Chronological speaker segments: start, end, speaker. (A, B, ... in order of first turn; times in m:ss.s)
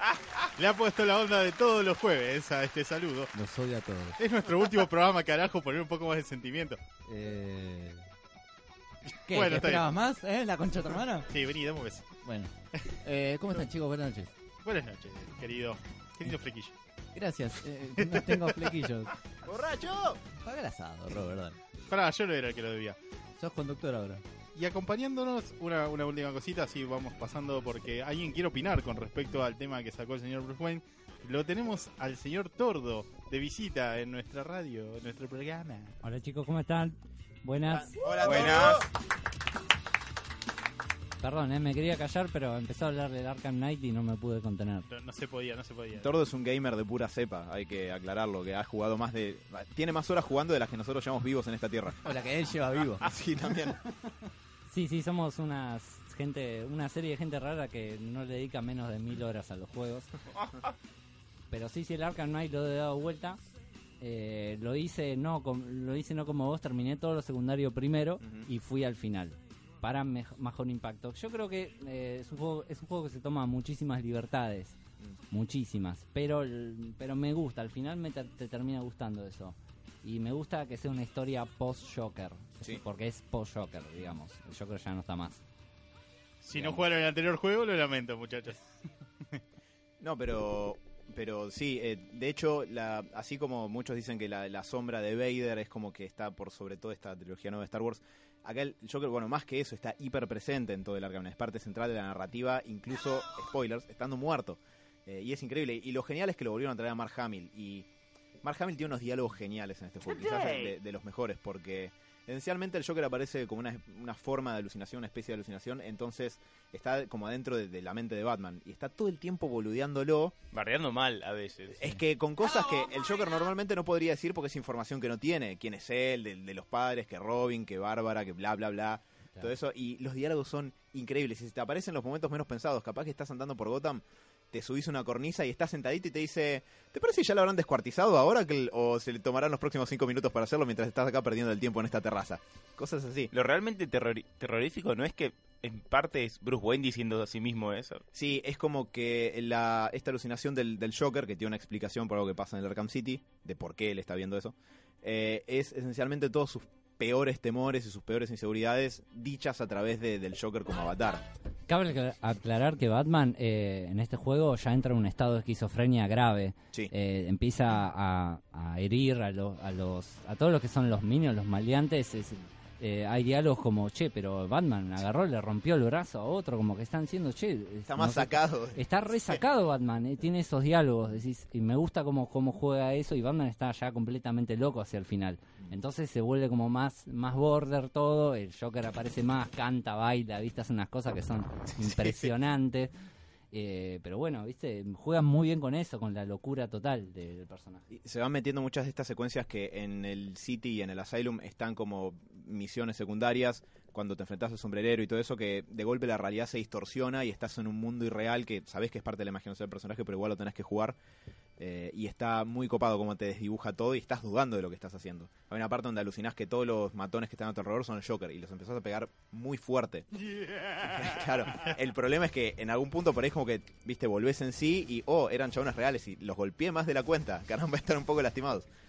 0:00.6-0:03.3 A
0:03.3-0:04.2 B
0:04.2-0:06.8 A
0:07.1-0:08.0 B
0:09.3-0:11.3 B
0:09.3-0:09.9 A
0:11.3-0:12.1 A
0:12.2-0:14.3 B
0:14.6-0:16.7 A
0:17.1-0:19.1 B
0:18.0-0:18.5 A
0:19.4-0:20.2 C
0:20.4-0:21.6 B
0:21.9-0:23.0 A
0:23.4-0:24.2 B
0:24.5-0:36.0 A
0:36.0-0:38.1 D
0:37.7-0:38.9 C
0:38.2-0:38.9 E
0:41.2-0:44.9 D
0:44.9-0:46.1 A
0:46.0-0:52.0 C
0:52.0-0:53.1 B
0:53.0-0:53.8 C
0:54.7-1:00.1 D
1:01.5-1:03.4 D
1:04.0-1:14.8 D
1:08.2-1:08.5 C
1:15.3-1:25.4 D
1:26.4-1:28.6 A
1:30.0-1:47.9 C
1:48.4-2:00.3 C
2:00.5-2:01.9 E
2:01.7-2:23.3 C
2:23.3-2:28.0 E
2:28.1-2:41.2 C
2:41.7-3:12.9 D
2:57.9-2:59.4 C
3:11.8-3:12.3 C
3:13.5-3:17.8 D
3:17.9-3:31.0 C
3:31.6-3:40.1 C
3:40.3-3:40.9 A
3:40.8-3:48.6 C